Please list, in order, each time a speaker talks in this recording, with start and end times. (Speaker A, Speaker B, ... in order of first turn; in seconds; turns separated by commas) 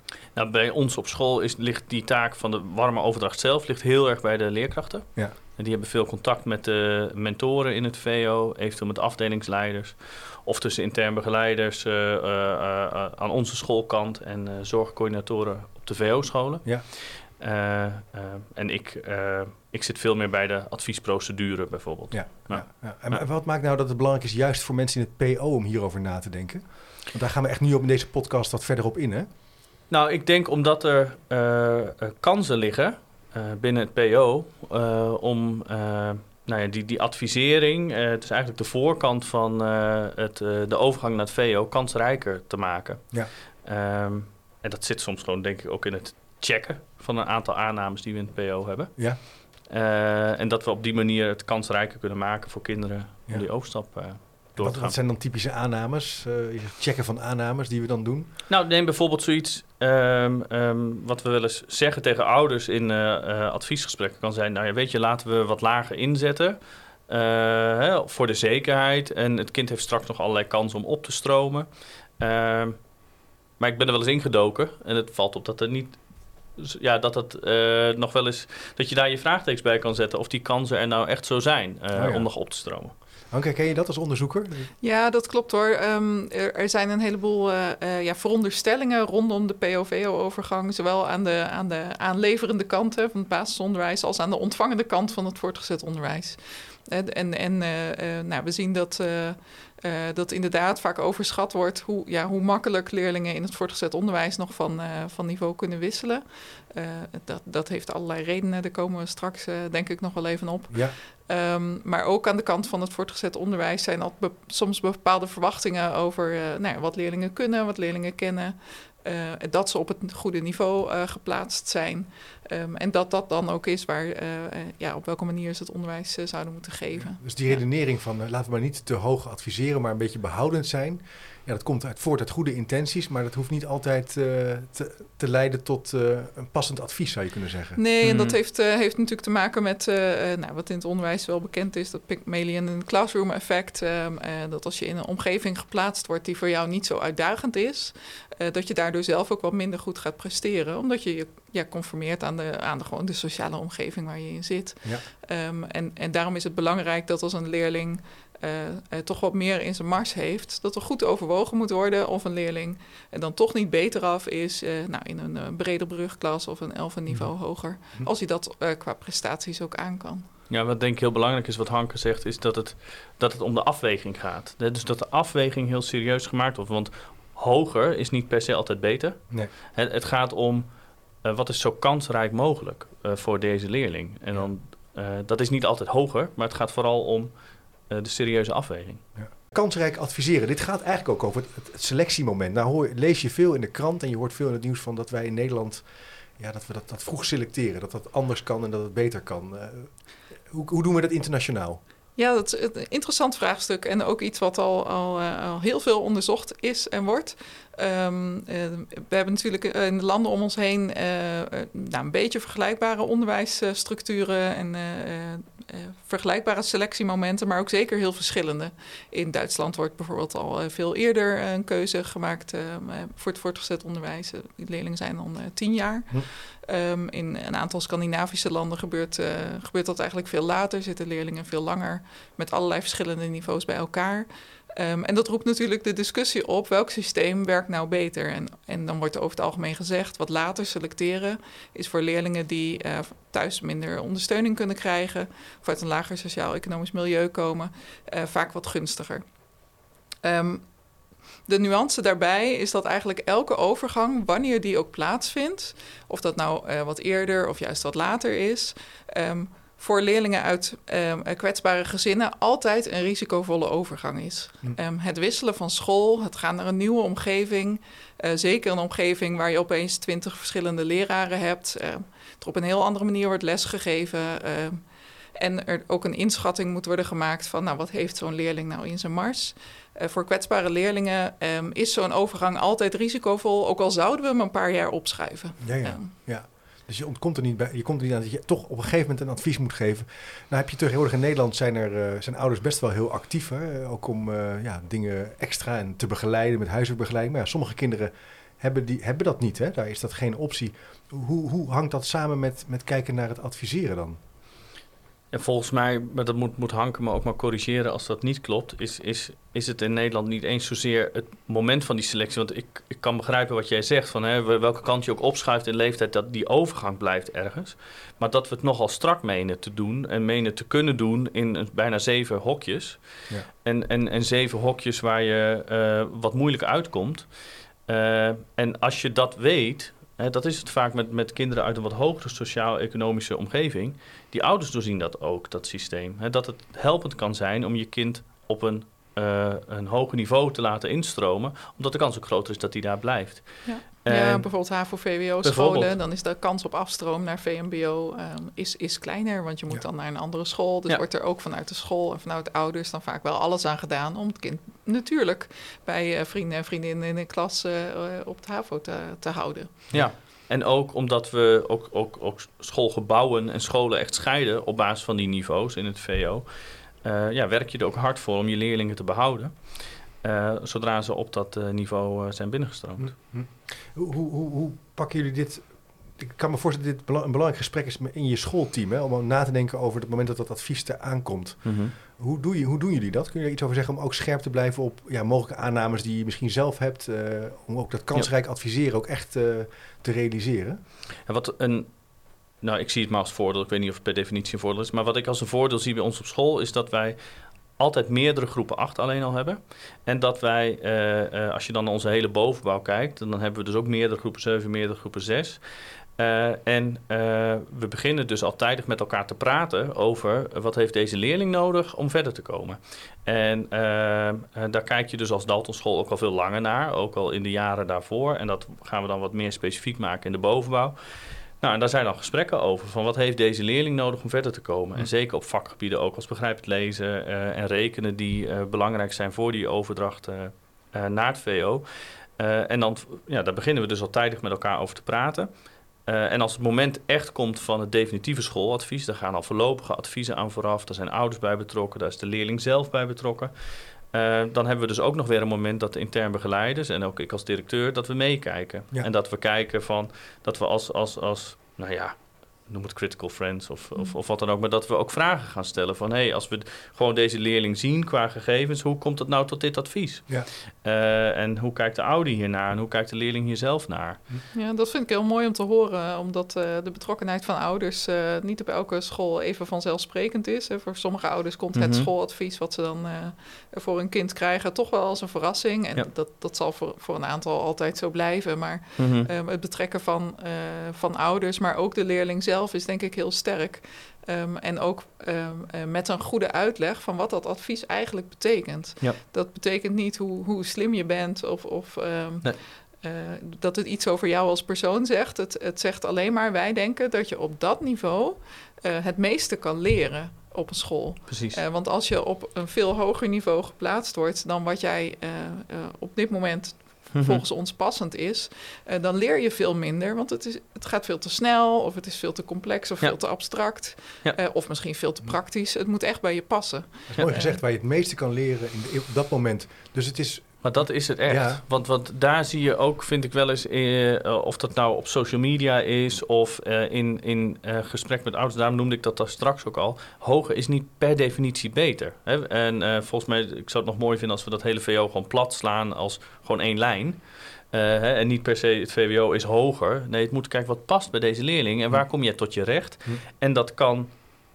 Speaker A: 0.3-23.2, Speaker B: 22.1-29.3, Speaker A: 29.9-55.0, Speaker B: 54.6-58.3, Speaker A: 58.5-72.9, Speaker A: 73.6-76.0, Speaker A: 76.5-82.9, Speaker B: 81.9-82.3, Speaker B: 83.3-84.7, Speaker C: 84.8-127.6, Speaker B: 127.2-137.8, Speaker C: 137.8-170.3, Speaker A: 138.0-138.4, Speaker A: 170.5-180.7, Speaker A: 181.2-189.0, Speaker B: 189.2-199.9, Speaker B: 200.5-201.8, Speaker C: 202.2-249.2, Speaker C: 250.2-250.7, Speaker C: 251.5-274.8, Speaker C: 275.4-286.1, Speaker B: 285.6-304.2, Speaker A: 305.3-327.3, Speaker A: 327.9-344.8, Speaker C: 343.7-359.9, Speaker A: 345.4-346.0, Speaker A: 359.9-373.1, Speaker B: 373.0-390.8, Speaker A: 381.6-381.9, Speaker A: 391.3-392.0, Speaker A: 392.6-397.2, Speaker A: 397.8-405.6, Speaker A: 406.2-431.9, Speaker A: 432.4-435.5, Speaker A: 436.1-464.2, Speaker C: 464.5-517.6, Speaker A: 471.7-472.1, Speaker A: 479.0-479.3, Speaker A: 501.3-501.6, Speaker A: 507.1-507.4, Speaker A: 513.0-514.4, Speaker B: 517.1-521.6, Speaker A: 520.6-544.1